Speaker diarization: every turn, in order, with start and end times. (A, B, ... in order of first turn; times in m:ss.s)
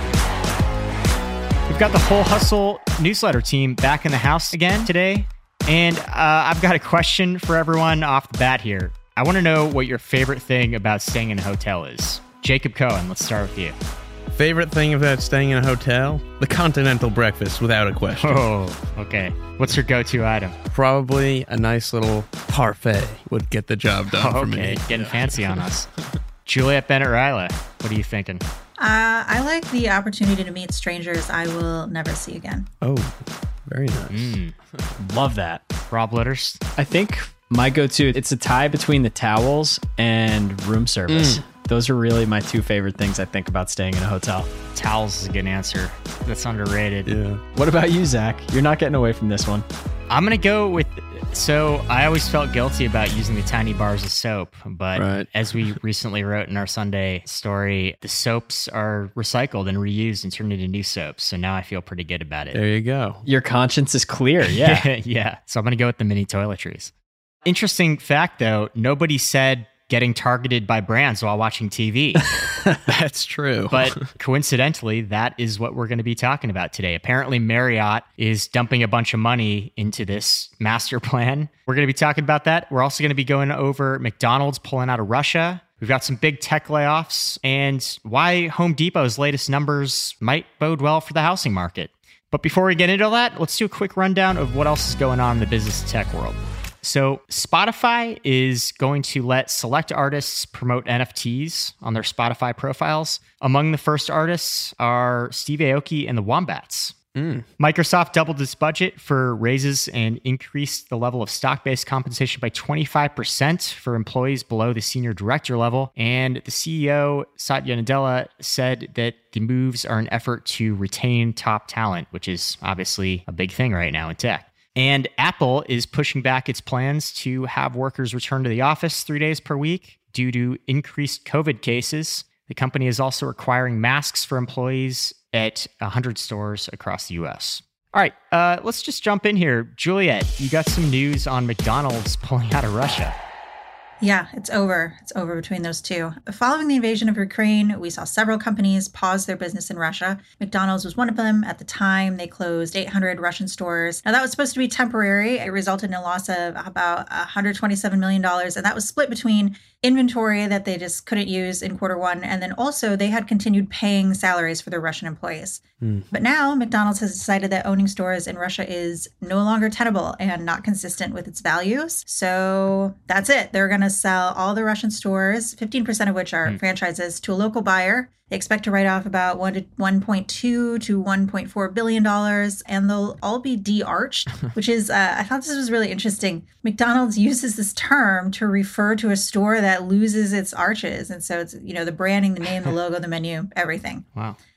0:01.7-0:13.7 A
0:14.3-0:18.4 B
0:18.2-0:20.6 A
0:20.7-0:25.7 B
0:24.1-0:25.9 A
0:26.4-0:28.4 A
0:28.8-0:32.7 C
0:32.8-0:33.1 B
0:33.7-0:34.4 B
0:34.1-0:34.5 A
0:35.0-0:35.6 D
0:35.9-0:36.6 A
0:36.8-0:44.5 D
0:41.1-0:41.4 B
0:44.7-0:47.1 A
0:47.0-0:47.4 B
0:47.5-0:49.6 D
0:50.1-1:02.6 A
0:54.9-0:55.3 B
1:02.5-1:03.2 B
1:03.2-1:04.9 D
1:04.4-1:06.9 A
1:07.4-1:12.4 A
1:12.9-1:14.1 B
1:13.7-1:46.9 A
1:47.2-1:47.4 B
1:47.6-2:23.2 A
2:24.0-2:45.6 C
2:46.1-3:14.1 C